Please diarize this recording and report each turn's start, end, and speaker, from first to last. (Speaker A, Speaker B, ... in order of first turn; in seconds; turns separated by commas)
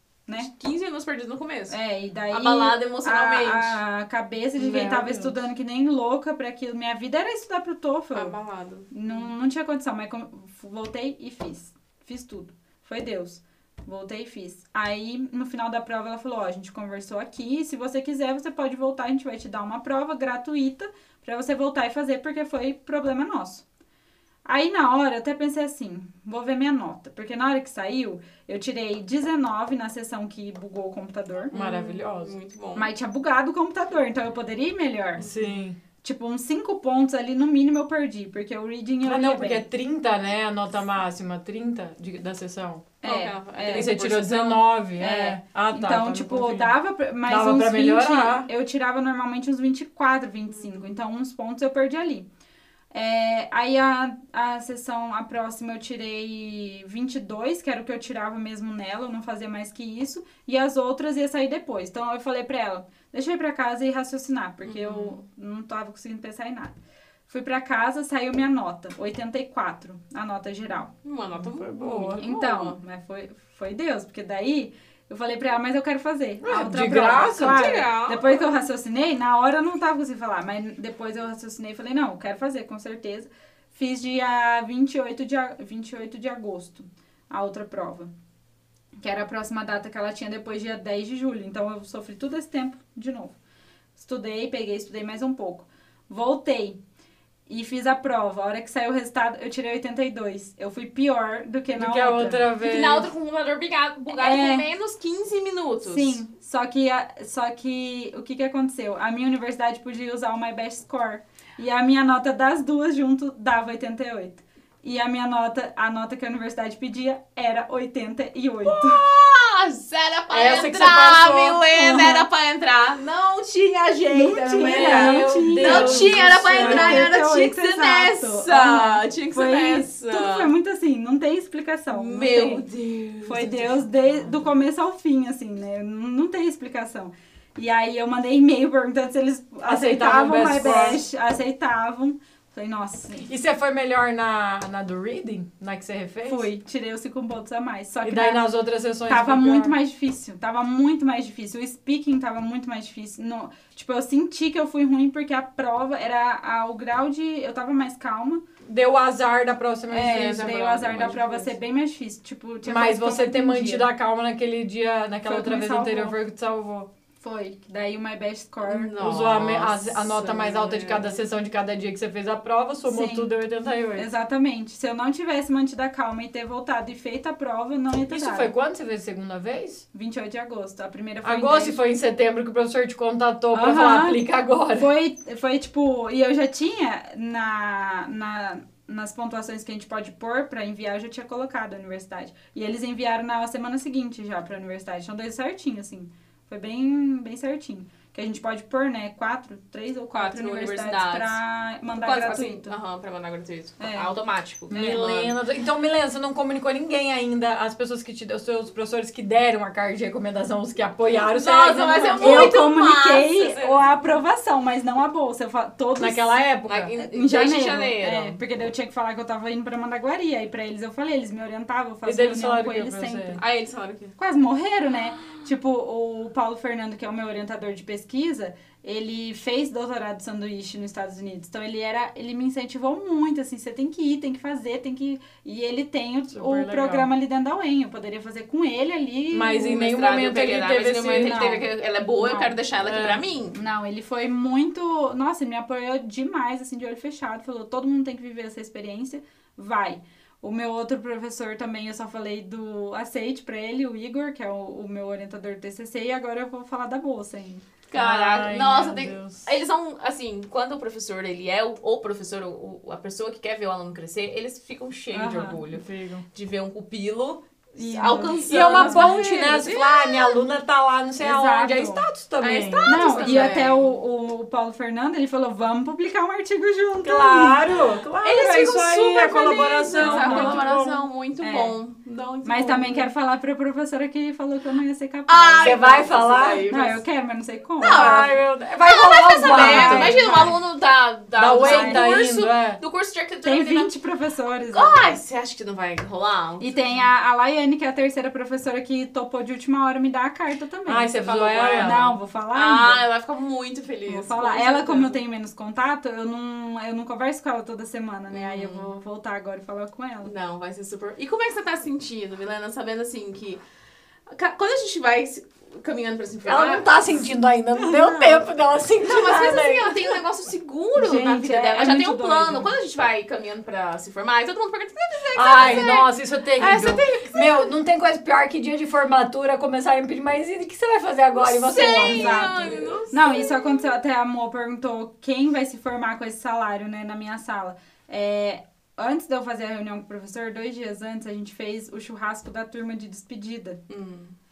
Speaker A: 0.4-1.8, Speaker B: 1.7-8.3, Speaker A: 2.3-3.8, Speaker C: 4.6-5.4, Speaker A: 8.1-9.3, Speaker B: 8.9-23.6, Speaker B: 24.5-31.6, Speaker A: 31.5-32.9, Speaker C: 31.5-32.3, Speaker B: 32.8-35.3, Speaker C: 35.2-35.8, Speaker A: 35.2-35.5, Speaker B: 36.0-39.7, Speaker C: 39.0-42.9, Speaker B: 43.0-44.0, Speaker A: 43.0-44.7, Speaker C: 43.7-46.7, Speaker B: 45.0-52.3, Speaker C: 47.3-48.5, Speaker A: 50.5-50.9, Speaker B: 52.9-66.8, Speaker A: 64.7-65.2, Speaker B: 67.3-70.9, Speaker A: 71.0-72.8, Speaker C: 71.4-72.2, Speaker B: 72.2-88.1, Speaker C: 76.4-77.7, Speaker A: 77.3-78.6, Speaker B: 89.0-93.4, Speaker B: 94.0-96.8, Speaker B: 97.5-102.4, Speaker C: 101.8-103.1, Speaker A: 102.6-106.2, Speaker B: 104.1-104.7, Speaker B: 105.8-119.0, Speaker A: 118.7-130.5, Speaker C: 120.3-122.0, Speaker B: 121.8-122.2, Speaker B: 124.1-132.7, Speaker C: 124.6-127.1, Speaker A: 131.9-133.8, Speaker B: 133.2-143.3, Speaker C: 139.7-141.0, Speaker C: 143.3-146.4, Speaker B: 146.2-148.4, Speaker C: 148.0-149.7, Speaker B: 149.1-158.4, Speaker C: 158.7-161.5, Speaker B: 159.9-163.9, Speaker C: 162.7-166.9, Speaker B: 165.2-166.2, Speaker B: 167.2-169.2, Speaker A: 168.7-171.2, Speaker C: 169.0-174.1, Speaker B: 172.9-173.3, Speaker B: 174.0-178.5, Speaker C: 178.1-179.9, Speaker B: 179.9-181.8, Speaker C: 181.2-184.9, Speaker B: 183.5-184.2, Speaker B: 184.7-202.8, Speaker A: 200.1-201.4, Speaker A: 201.9-205.3, Speaker B: 203.8-204.1, Speaker C: 204.7-212.6, Speaker A: 211.2-213.8, Speaker B: 212.2-223.4, Speaker C: 216.0-216.9, Speaker A: 216.7-218.4, Speaker C: 222.1-223.4, Speaker A: 223.4-224.2, Speaker B: 224.2-239.9, Speaker C: 236.3-237.1, Speaker C: 239.3-241.4, Speaker A: 239.6-243.6, Speaker B: 241.1-241.7, Speaker B: 242.2-242.6, Speaker C: 242.8-243.2, Speaker B: 243.6-257.6, Speaker A: 257.9-270.4, Speaker C: 258.0-259.5, Speaker B: 265.1-265.6, Speaker C: 265.7-266.2, Speaker B: 267.8-269.1, Speaker C: 268.4-273.6, Speaker B: 271.2-272.1, Speaker A: 272.4-273.9, Speaker B: 272.9-277.8, Speaker C: 277.0-281.0, Speaker A: 278.2-283.1, Speaker B: 279.9-280.6, Speaker B: 281.4-281.8, Speaker B: 282.4-286.1, Speaker A: 285.3-287.0, Speaker C: 285.6-286.7, Speaker B: 286.7-288.3, Speaker A: 287.8-293.9, Speaker C: 287.8-290.3, Speaker B: 289.4-290.6, Speaker C: 291.4-292.8, Speaker B: 291.6-292.2, Speaker B: 293.4-295.1, Speaker A: 294.6-297.1, Speaker B: 296.6-301.1, Speaker C: 300.9-302.2, Speaker A: 301.2-305.2, Speaker B: 301.7-303.0, Speaker B: 304.1-310.3, Speaker A: 308.3-308.9, Speaker A: 310.2-313.6, Speaker A: 314.3-317.0, Speaker C: 316.5-320.0, Speaker A: 318.0-318.4, Speaker A: 319.0-327.7, Speaker B: 321.0-322.7, Speaker C: 325.3-332.9, Speaker A: 331.4-333.9, Speaker B: 331.9-343.8, Speaker A: 343.9-344.3